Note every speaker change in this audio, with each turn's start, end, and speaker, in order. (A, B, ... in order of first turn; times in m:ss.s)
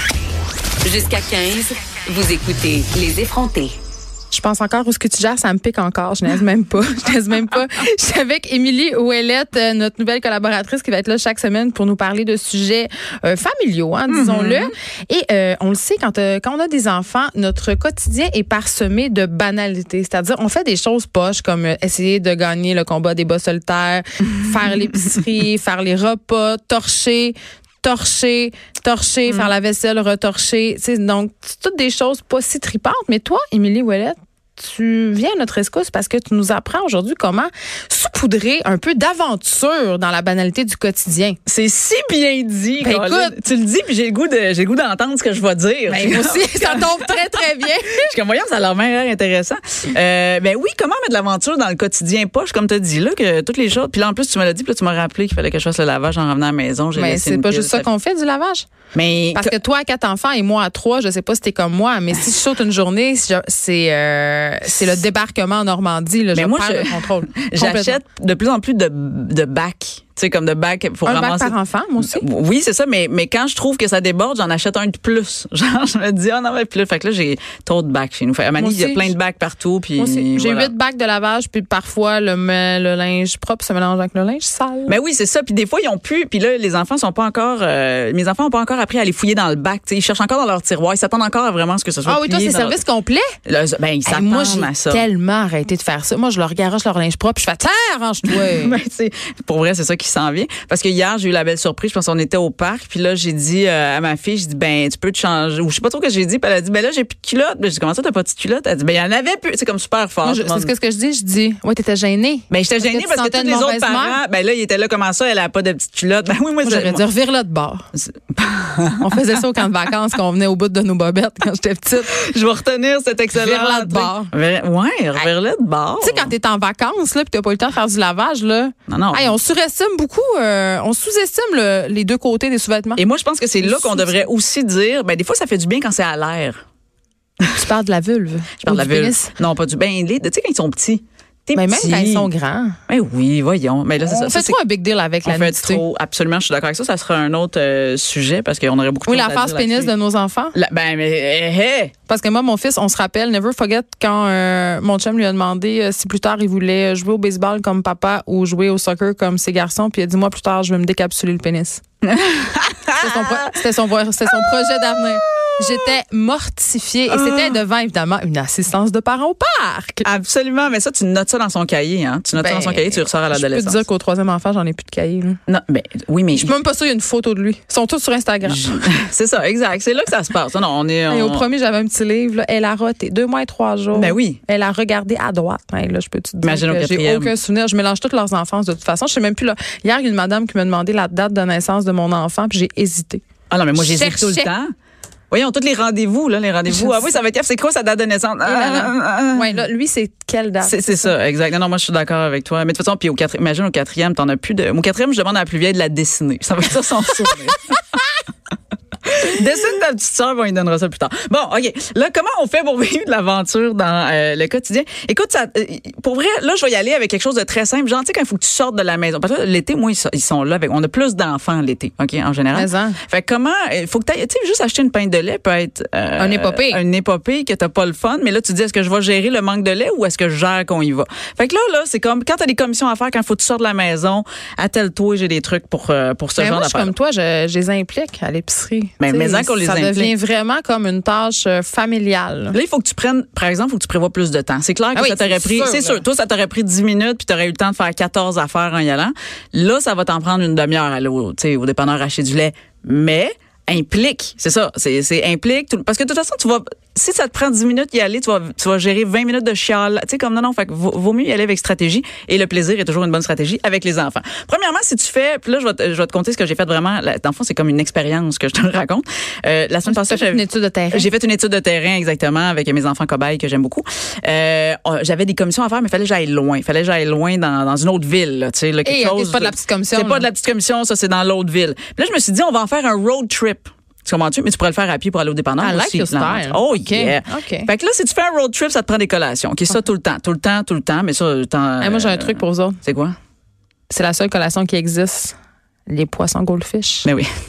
0:00.8-0:03.8 A
0:04.3-0:41.4 B
0:14.1-0:14.7 C
0:41.4-0:57.9 C
0:42.8-0:43.4 B
0:45.9-0:48.1 B
0:56.9-0:58.7 B
0:58.9-0:59.5 C
0:59.3-1:08.0 B
1:06.3-1:20.7 C
1:11.0-1:12.3 B
1:18.6-1:19.2 B
1:20.0-1:25.0 B
1:24.9-1:32.8 C
1:32.0-1:33.3 B
1:33.4-1:35.0 C
1:34.0-1:38.8 B
1:38.2-1:50.7 C
1:50.2-1:54.2 B
1:52.5-1:57.0 C
1:56.6-1:57.9 B
1:57.9-1:59.4 C
1:59.0-2:02.1 B
2:02.1-2:06.3 C
2:03.3-2:04.3 B
2:06.0-2:13.0 B
2:08.9-2:09.4 C
2:13.0-2:16.6 C
2:13.6-2:14.3 B
2:17.5-2:19.3 B
2:18.6-2:22.3 C
2:21.5-2:22.8 B
2:22.9-2:24.6 C
2:24.0-2:25.8 B
2:25.2-2:29.9 C
2:29.1-2:30.6 B
2:30.5-2:31.9 C
2:32.1-2:41.8 B
2:42.0-2:43.5 C
2:43.0-2:50.1 B
2:44.3-2:45.9 C
2:47.1-2:47.6 C
2:50.0-2:53.8 C
2:52.3-2:55.4 B
2:55.5-2:56.5 C
2:56.3-2:58.9 B
2:58.5-3:01.4 C
3:01.1-3:14.5 B
3:03.9-3:04.4 C
3:06.4-3:07.3 C
3:13.5-3:14.7 C
3:15.3-3:19.6 C
3:16.7-3:17.0 B
3:18.4-3:21.1 B
3:20.6-3:28.0 C
3:29.0-3:56.9 C
3:42.5-3:43.0 B
3:46.2-3:46.8 B
3:56.4-4:02.6 B
3:59.0-4:00.1 C
4:02.5-4:53.2 C
4:04.9-4:06.0 B
4:29.9-4:31.1 B
4:38.8-4:40.3 B
4:45.6-4:47.7 B
4:51.8-4:52.8 B
4:53.9-4:55.4 B
4:55.9-4:57.1 B
4:57.0-4:57.3 C